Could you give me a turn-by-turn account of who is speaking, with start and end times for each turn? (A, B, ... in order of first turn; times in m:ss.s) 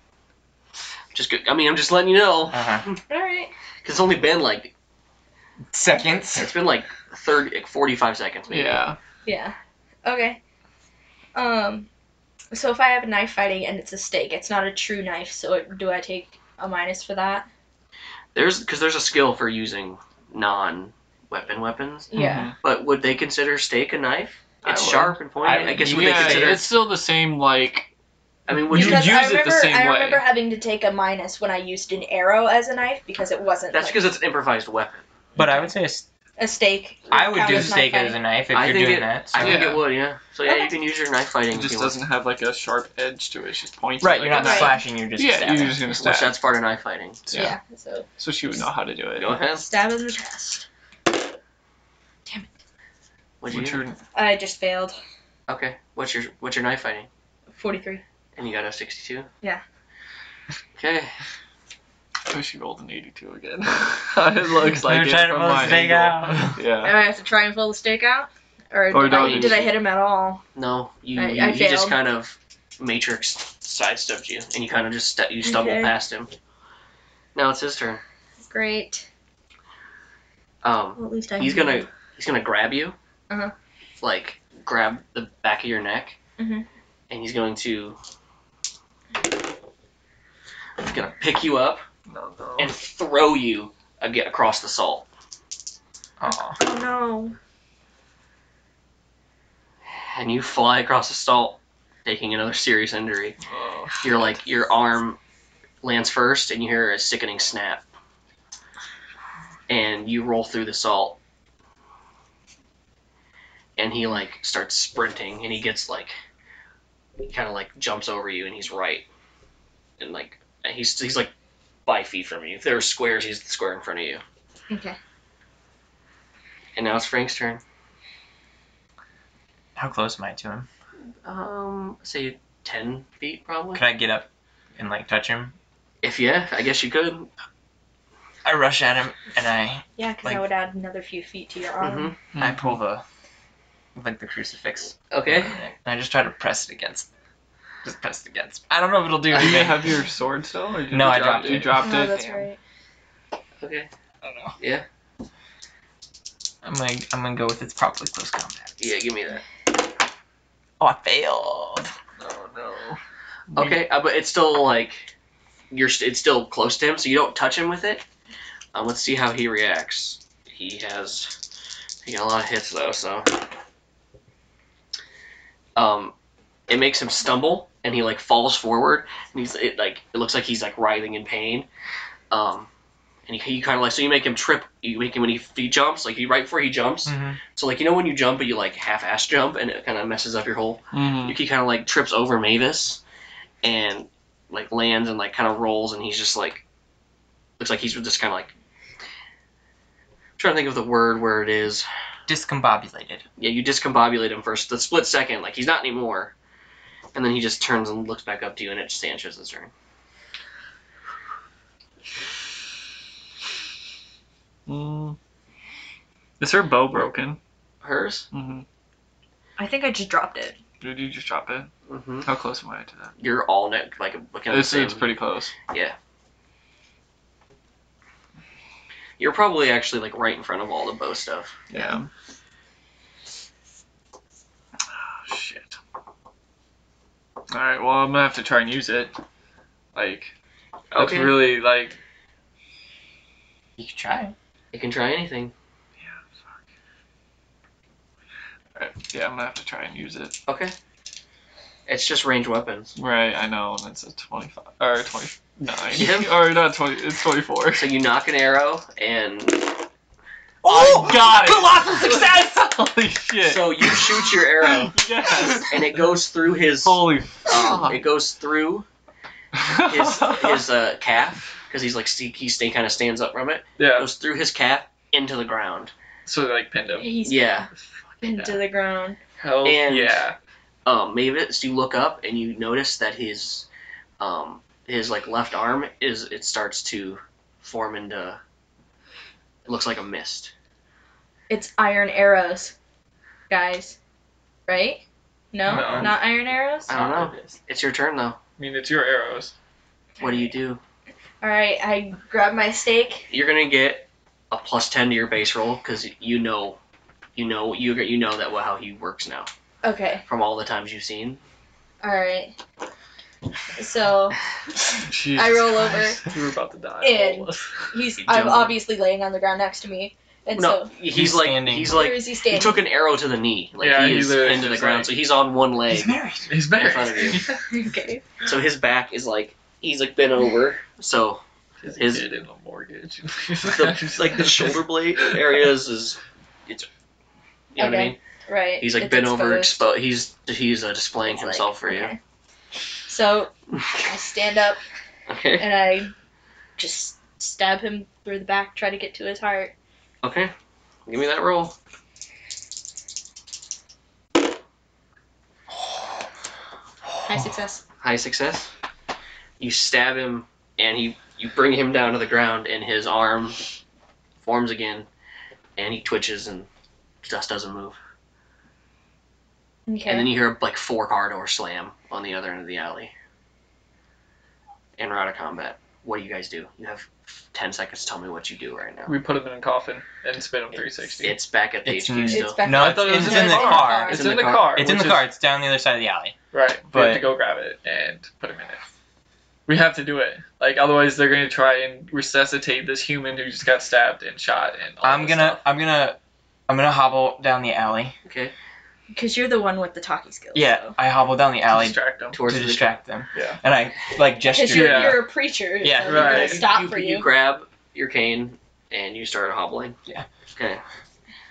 0:01.1-0:03.0 A
0:02.5-0:02.9 B
0:03.1-0:03.5 C
0:03.8-0:04.7 A
0:05.7-0:06.6 B
0:06.4-0:08.8 A
0:08.5-0:09.0 D
0:09.2-0:10.4 C
0:11.3-0:11.9 C
0:12.5-0:17.5 C
0:18.3-0:26.7 A
0:22.1-0:22.5 C
0:22.1-0:22.5 D
0:24.6-0:25.2 D
0:25.4-0:26.6 B
0:25.7-0:27.9 D
0:28.5-0:29.2 A
0:28.5-0:30.2 D
0:28.7-0:34.0 C
0:33.7-0:35.0 A
0:35.4-0:36.0 B
0:36.4-0:38.2 C
0:37.1-0:39.8 B
0:38.5-0:42.0 A
0:39.4-0:39.8 D
0:40.4-0:40.8 C
0:41.5-0:46.4 D
0:44.0-0:45.9 B
0:44.3-0:44.8 C
0:46.0-0:47.3 A
0:47.3-0:47.6 D
0:47.3-0:48.1 C
0:48.2-0:49.4 D
0:49.2-0:49.7 A
0:49.6-0:50.7 C
0:53.4-0:53.8 A
0:53.5-0:54.0 D
0:54.1-0:55.0 C
0:55.5-0:57.1 A
0:57.5-0:58.0 C
0:58.4-0:59.3 A
1:00.7-1:01.1 A
1:02.3-1:07.0 D
1:04.8-1:06.6 B
1:06.8-1:10.4 C
1:08.9-1:09.7 D
1:09.1-1:09.7 A
1:10.6-1:16.3 A
1:11.1-1:12.0 C
1:15.4-1:15.9 C
1:17.3-1:18.0 A
1:18.4-1:19.1 C
1:20.6-1:23.0 A
1:21.0-1:21.8 C
1:24.0-1:26.2 A
1:26.4-1:26.6 C
1:27.1-1:28.0 A
1:30.8-1:31.8 A
1:32.1-1:32.7 D
1:32.6-1:35.1 A
1:36.2-1:36.6 B
1:36.6-1:37.4 C
1:39.9-1:43.4 A
1:43.5-1:44.4 D
1:44.0-1:45.2 A
1:45.8-1:47.8 A
1:49.7-1:51.2 A
1:53.8-1:56.2 A
1:57.2-1:59.1 A
2:00.0-2:01.3 A
2:01.9-2:04.2 A
2:04.7-2:05.0 C
2:06.8-2:07.6 A
2:09.8-2:10.7 B
2:11.2-2:13.8 A
2:13.7-2:15.6 B
2:16.0-2:17.3 A
2:18.4-2:20.4 B
2:20.0-2:22.1 C
2:21.8-2:22.2 A
2:22.3-2:22.8 D
2:22.4-2:23.0 B
2:24.0-2:27.1 B
2:25.1-2:25.6 A
2:27.8-2:30.0 B
2:29.3-2:32.5 D
2:30.9-2:31.9 B
2:31.8-2:32.6 C
2:33.6-2:33.9 A
2:34.2-2:34.5 D
2:34.6-2:34.8 A
2:36.6-2:38.7 B
2:38.8-2:39.4 A
2:40.8-2:41.9 B
2:42.2-2:43.0 D
2:43.5-2:43.8 D
2:43.6-2:45.1 A
2:45.7-2:48.0 A
2:48.7-2:51.3 A
2:52.0-2:53.4 A
2:55.8-2:56.1 A
2:56.7-3:01.7 A
3:02.3-3:02.7 A
3:03.3-3:13.0 A
3:07.1-3:07.4 B
3:10.9-3:11.4 D
3:13.6-3:16.6 A
3:17.6-3:18.5 A
3:20.4-3:21.9 A
3:22.3-3:23.2 B
3:23.4-3:26.3 A
3:27.1-3:29.7 A
3:34.7-3:35.2 D
3:36.4-3:37.4 D
3:37.8-3:38.3 A
3:38.3-3:38.6 D
3:39.6-3:40.6 C
3:40.8-3:41.7 D
3:41.9-3:42.3 A
3:42.2-3:43.1 D
3:43.2-3:45.1 A
3:44.5-3:45.6 D
3:45.7-3:46.0 A
3:49.2-3:51.6 A
3:51.7-3:52.1 D
3:54.9-3:55.8 D
3:57.5-3:59.2 D
3:59.9-4:00.3 D
4:00.9-4:01.4 A
4:01.0-4:02.0 D
4:03.8-4:04.3 B
4:04.7-4:05.5 A
4:06.0-4:06.5 D
4:08.8-4:10.4 D
4:10.5-4:10.7 A
4:11.9-4:12.9 A
4:13.0-4:17.9 D
4:15.9-4:16.4 A
4:17.7-4:19.9 A
4:20.6-4:26.0 D
4:20.6-4:22.3 A
4:23.4-4:28.9 A
4:26.8-4:28.0 D
4:29.5-4:30.7 D
4:29.8-4:35.9 A
4:33.8-4:34.1 D
4:36.2-4:37.2 D
4:37.0-4:37.7 C
4:37.2-4:37.7 A
4:38.2-4:38.6 D
4:38.2-4:39.2 C
4:39.4-4:40.4 D
4:39.6-4:40.2 A
4:40.8-4:43.6 A
4:44.2-4:48.4 A
4:49.6-4:50.5 A
4:51.5-4:52.7 C
4:53.5-4:54.0 C
4:54.7-4:56.9 C
4:55.7-4:56.1 D
4:55.7-4:56.1 A
4:56.9-4:58.4 A
4:56.9-4:57.5 D
4:58.6-4:59.5 D
5:00.2-5:00.6 C
5:00.2-5:00.8 A
5:01.4-5:03.3 C
5:03.3-5:06.8 A
5:07.3-5:09.5 A
5:09.8-5:10.2 C
5:10.2-5:11.4 A
5:12.0-5:12.6 C
5:13.8-5:14.4 C
5:15.0-5:17.9 D
5:15.3-5:16.2 C
5:17.0-5:20.9 C
5:18.2-5:18.8 A
5:20.6-5:26.1 A
5:21.1-5:22.1 B
5:21.9-5:22.8 C
5:23.8-5:25.2 D
5:25.9-5:26.5 B
5:26.5-5:27.6 D
5:26.8-5:27.5 A
5:27.7-5:28.2 C
5:28.4-5:31.4 A
5:31.8-5:35.7 D
5:32.0-5:32.3 A
5:33.6-5:36.9 A
5:37.7-5:38.2 A
5:37.8-5:39.9 C
5:38.8-5:42.1 A
5:41.3-5:42.2 C
5:43.1-5:44.8 C
5:45.3-5:45.8 A
5:45.6-5:46.1 C
5:46.8-5:49.7 C
5:50.2-5:50.5 A
5:51.1-5:51.7 A
5:57.2-5:57.8 C
5:58.0-5:58.7 A
5:59.6-6:03.6 A
6:04.4-6:05.1 A
6:05.8-6:06.7 A
6:07.2-6:08.0 A
6:09.9-6:10.3 C
6:10.0-6:13.1 A
6:15.0-6:19.1 A
6:19.1-6:21.4 D
6:20.8-6:22.7 A
6:21.8-6:26.4 B
6:22.2-6:24.4 C
6:22.7-6:25.2 D
6:24.0-6:24.8 A
6:26.5-6:28.8 D
6:26.9-6:27.3 B
6:29.7-6:35.6 D
6:35.0-6:38.1 B
6:38.2-6:38.5 A
6:39.1-6:41.0 C
6:40.6-6:45.2 B
6:41.7-6:42.4 D
6:42.3-6:42.9 A
6:44.5-6:47.3 C
6:44.6-6:45.3 D
6:45.8-6:46.3 B
6:46.0-6:46.7 D
6:46.2-6:50.0 A
6:50.5-6:50.8 A